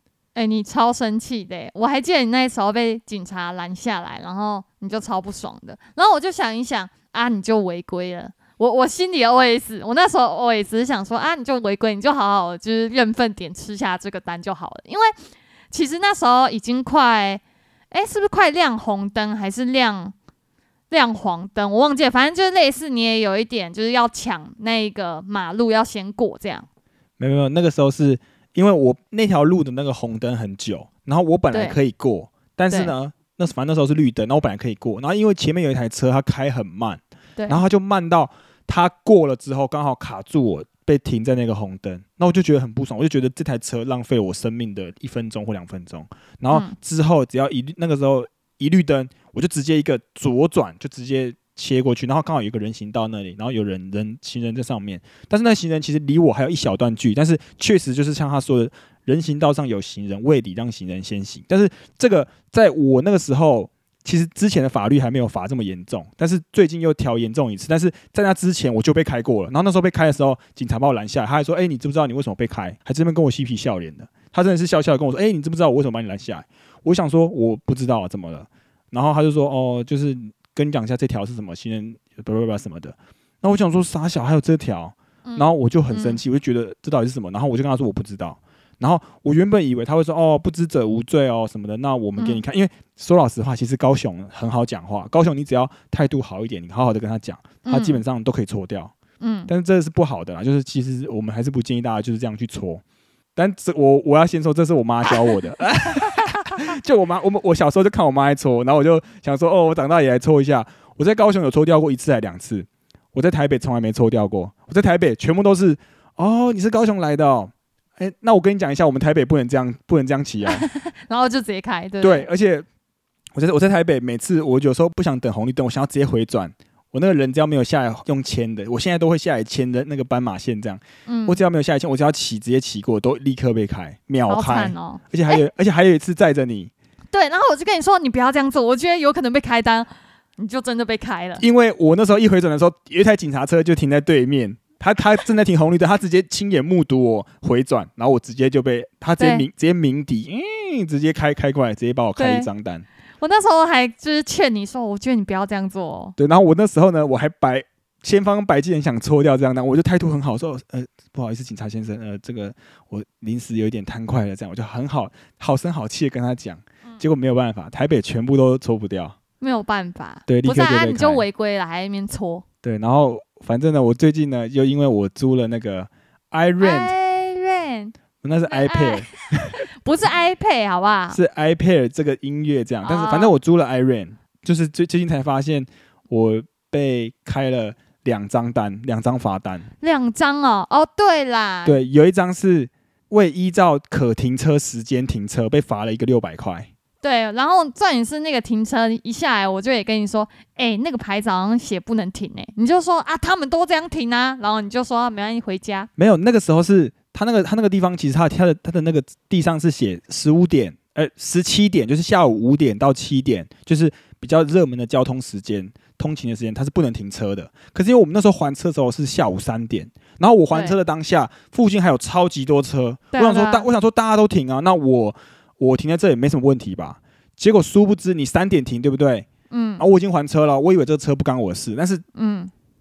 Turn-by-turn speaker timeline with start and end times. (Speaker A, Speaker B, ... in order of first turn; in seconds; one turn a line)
Speaker A: 0.3-15.1
Speaker A: 15.7-20.1
Speaker A: 20.9-26.6
Speaker B: 27.2-98.9
Speaker A: 31.5-31.8
Speaker A: 37.4-37.6
Speaker A: 46.5-46.8
Speaker A: 85.2-86.2
Speaker A: 92.2-92.4
Speaker A: 97.6-98.0
Speaker A: 99.2-99.5
Speaker B: 99.5-102.8
Speaker B: 103.3-120.7
Speaker A: 120.5-122.3
Speaker B: 122.0-122.6
Speaker B: 123.3-136.7
Speaker A: 131.1-131.4
Speaker A: 134.3-135.4
Speaker A: 137.1-141.4
Speaker B: 141.4-152.8
Speaker A: 149.2-149.4
Speaker A: 152.2-152.5
Speaker A: 153.2-156.2
Speaker B: 156.2-169.2
Speaker A: 169.4-172.4
Speaker B: 170.3-171.2
Speaker B: 172.6-176.9
Speaker A: 176.6-177.9
Speaker B: 178.2-179.6
Speaker A: 178.5-181.2
Speaker B: 181.1-189.7
Speaker A: 182.8-183.3
Speaker A: 189.8-191.8
Speaker B: 191.6-196.7
Speaker A: 197.0-205.9
Speaker B: 206.0-229.3
Speaker A: 220.5-220.8
Speaker A: 223.1-223.7
Speaker A: 229.5-229.8
Speaker B: 229.8-232.0
Speaker A: 232.1-232.5